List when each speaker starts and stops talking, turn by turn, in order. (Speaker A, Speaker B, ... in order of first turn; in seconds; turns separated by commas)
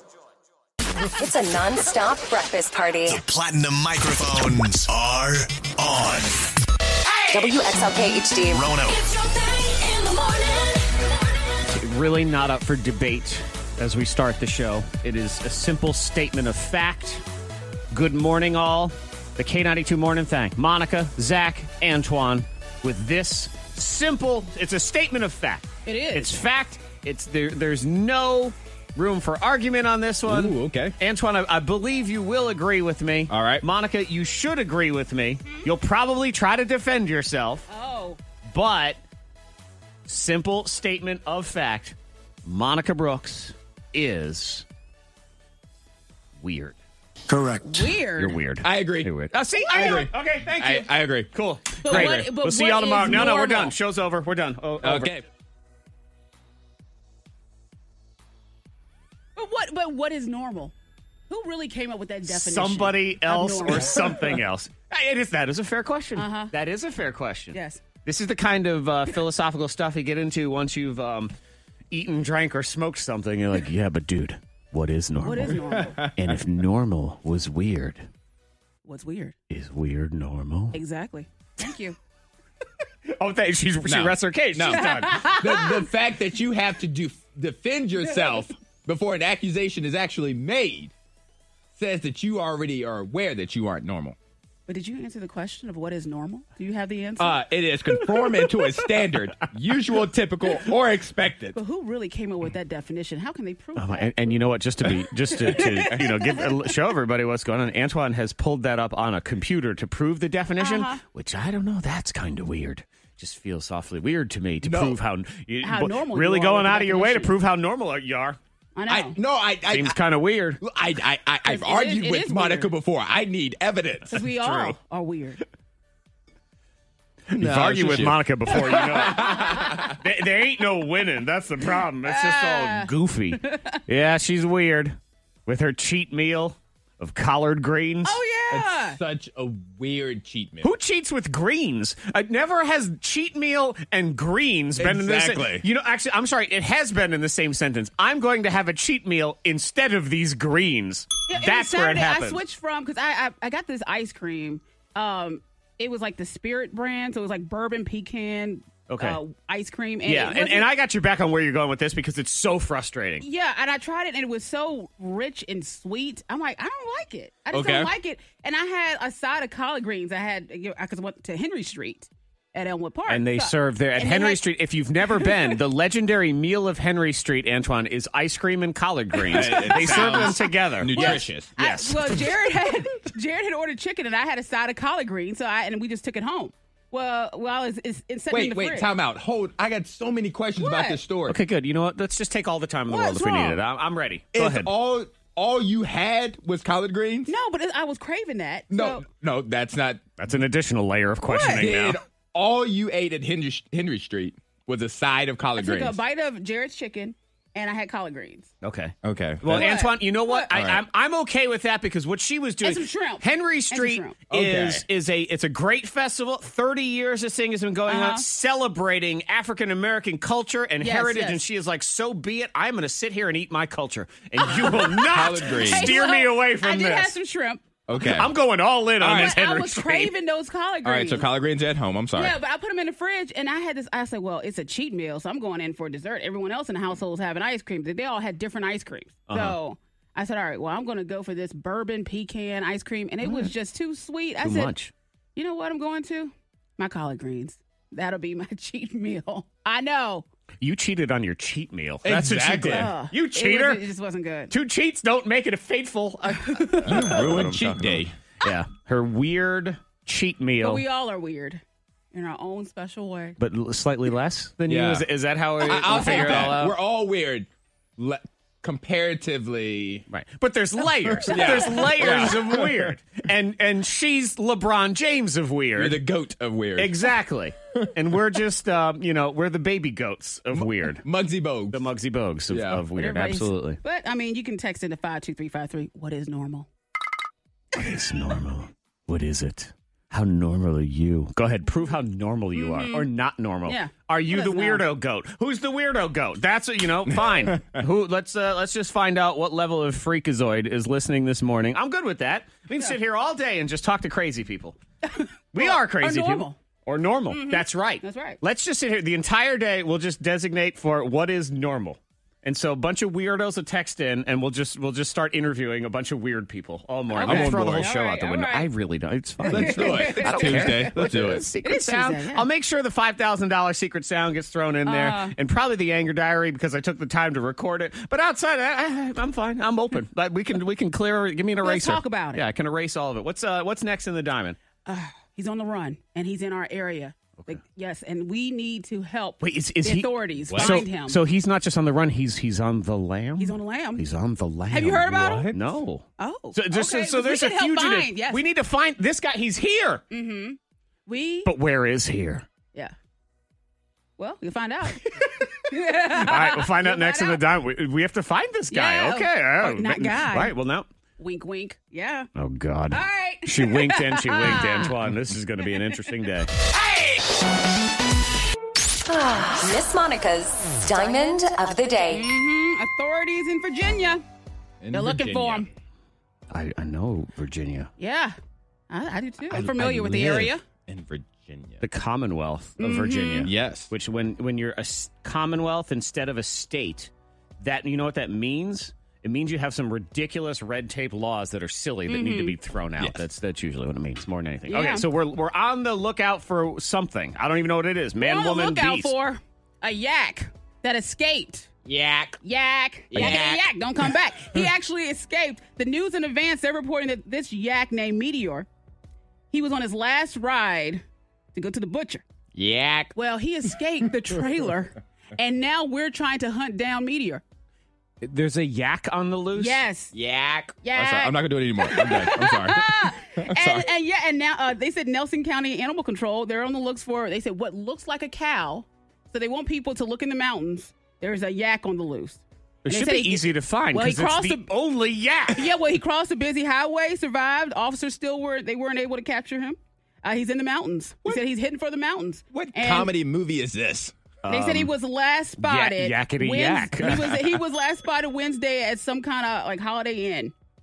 Speaker A: 1.2-3.2, Speaker B: 3.1-6.5, Speaker A: 7.3-8.8, Speaker B: 8.5-9.1, Speaker A: 9.8-10.6, Speaker C: 11.7-17.2, Speaker C: 17.9-37.7, Speaker D: 25.9-26.4, Speaker E: 30.3-30.9, Speaker E: 33.3-33.6, Speaker D: 37.7-38.2, Speaker C: 38.5-39.0, Speaker C: 40.1-44.6, Speaker C: 46.4-46.8, Speaker B: 47.3-47.9, Speaker D: 47.6-48.4, Speaker C: 48.1-55.1, Speaker E: 48.6-49.1, Speaker E: 49.6-51.3, Speaker D: 49.7-50.1, Speaker D: 51.8-53.7, Speaker E: 51.9-52.3, Speaker E: 54.8-55.2, Speaker D: 59.4-60.7, Speaker D: 61.3-64.4, Speaker C: 62.3-71.3, Speaker D: 66.2-66.5, Speaker D: 67.5-67.8, Speaker C: 71.9-78.0, Speaker D: 75.2-76.0, Speaker E: 75.6-76.4, Speaker D: 78.8-79.3, Speaker C: 79.5-80.8, Speaker D: 80.7-82.0, Speaker C: 83.1-85.2, Speaker E: 83.8-90.9, Speaker D: 84.7-85.8, Speaker D: 88.0-88.5, Speaker E: 91.8-94.2, Speaker D: 94.7-97.4, Speaker E: 97.2-101.6, Speaker D: 101.5-104.1, Speaker C: 103.8-118.4, Speaker D: 105.3-106.5, Speaker D: 110.6-111.0, Speaker E: 114.6-115.0, Speaker D: 115.6-117.3, Speaker D: 118.8-119.2, Speaker E: 118.9-120.0, Speaker C: 119.7-120.6, Speaker E: 120.6-124.1, Speaker D: 121.5-122.7, Speaker D: 124.1-125.4, Speaker C: 124.4-124.8, Speaker E: 127.3-130.0, Speaker C: 127.3-135.0, Speaker D: 132.1-132.9, Speaker D: 133.4-133.8, Speaker C: 135.5-138.2, Speaker D: 138.0-139.0, Speaker E: 138.5-140.7, Speaker C: 140.6-152.4, Speaker E: 144.8-145.7, Speaker D: 151.3-160.7, Speaker C: 158.9-159.2, Speaker C: 160.1-163.2, Speaker D: 163.2-174.4, Speaker E: 167.5-167.9, Speaker C: 173.1-182.1, Speaker D: 175.2-175.6, Speaker D: 179.2-180.4, Speaker E: 179.3-181.6, Speaker D: 180.9-188.9, Speaker E: 188.3-191.4, Speaker D: 190.6-191.0, Speaker C: 191.3-194.7, Speaker D: 192.9-193.6, Speaker E: 194.3-197.3, Speaker D: 197.3-199.1, Speaker E: 198.7-200.0, Speaker C: 200.2-202.0, Speaker D: 201.3-201.7, Speaker E: 201.6-206.0, Speaker D: 205.6-208.5, Speaker C: 208.6-227.2, Speaker E: 209.0-209.7, Speaker D: 209.5-210.5, Speaker E: 210.5-210.8, Speaker D: 212.6-214.2, Speaker E: 214.3-214.8, Speaker D: 217.9-218.2, Speaker D: 220.8-221.4, Speaker D: 224.5-227.6, Speaker E: 225.0-226.1, Speaker E: 227.9-228.3, Speaker C: 227.9-230.1, Speaker E: 229.0-229.4, Speaker D: 229.1-231.3, Speaker E: 230.8-232.4, Speaker D: 232.2-244.7, Speaker C: 239.3-239.6, Speaker C: 243.2-243.5, Speaker C: 244.4-244.9, Speaker D: 245.4-250.3, Speaker C: 250.6-253.8, Speaker E: 252.0-252.9, Speaker D: 252.7-254.5, Speaker C: 254.5-260.8, Speaker D: 256.3-257.2, Speaker E: 256.9-258.2, Speaker D: 260.6-261.6, Speaker D: 262.1-263.4, Speaker C: 263.4-266.8, Speaker E: 264.7-265.1, Speaker E: 265.6-270.1, Speaker D: 265.8-266.5, Speaker C: 270.1-276.0, Speaker E: 271.1-272.9, Speaker D: 271.3-272.1, Speaker E: 275.8-277.0, Speaker C: 276.8-281.0, Speaker E: 280.5-281.8, Speaker C: 281.7-283.8, Speaker E: 282.5-282.8, Speaker D: 283.0-286.7, Speaker C: 287.7-304.8, Speaker D: 292.6-293.1, Speaker D: 293.7-294.9, Speaker D: 305.0-306.6, Speaker C: 305.5-334.6, Speaker D: 307.3-308.4, Speaker D: 317.1-318.7, Speaker E: 317.2-317.9, Speaker E: 319.4-321.4, Speaker D: 319.5-322.5, Speaker D: 324.9-325.4, Speaker D: 331.6-332.4, Speaker D: 334.9-341.2, Speaker C: 339.4-350.0, Speaker E: 340.5-340.8, Speaker D: 343.4-344.0, Speaker D: 344.7-345.6, Speaker D: 346.2-348.4, Speaker D: 350.1-351.5, Speaker C: 351.4-352.5, Speaker D: 354.2-357.4, Speaker C: 356.1-360.9, Speaker D: 358.7-360.5, Speaker D: 361.2-362.3, Speaker C: 362.4-366.5, Speaker D: 362.9-364.9, Speaker A: 369.1-372.3, Speaker D: 372.1-374.2, Speaker E: 374.8-375.7, Speaker D: 374.9-375.7, Speaker C: 376.5-377.9, Speaker D: 378.0-378.4, Speaker D: 378.9-380.6, Speaker E: 379.5-381.8, Speaker C: 379.6-380.5, Speaker C: 381.8-399.1, Speaker D: 382.8-383.5, Speaker E: 383.4-383.9, Speaker D: 392.1-392.6, Speaker E: 393.0-393.2, Speaker D: 394.7-395.1, Speaker D: 398.2-401.7, Speaker E: 401.9-402.4, Speaker D: 402.4-408.7, Speaker E: 403.1-403.6, Speaker C: 403.1-403.6, Speaker D: 409.5-411.0, Speaker D: 411.6-412.2, Speaker C: 412.6-413.1, Speaker E: 412.6-413.1, Speaker D: 413.1-417.4, Speaker C: 418.2-419.8, Speaker D: 419.6-420.1, Speaker E: 420.1-423.9, Speaker D: 420.8-434.7, Speaker C: 432.8-435.6, Speaker D: 435.5-443.1, Speaker E: 442.5-444.2, Speaker C: 444.4-444.9, Speaker D: 444.5-450.5, Speaker C: 445.6-447.4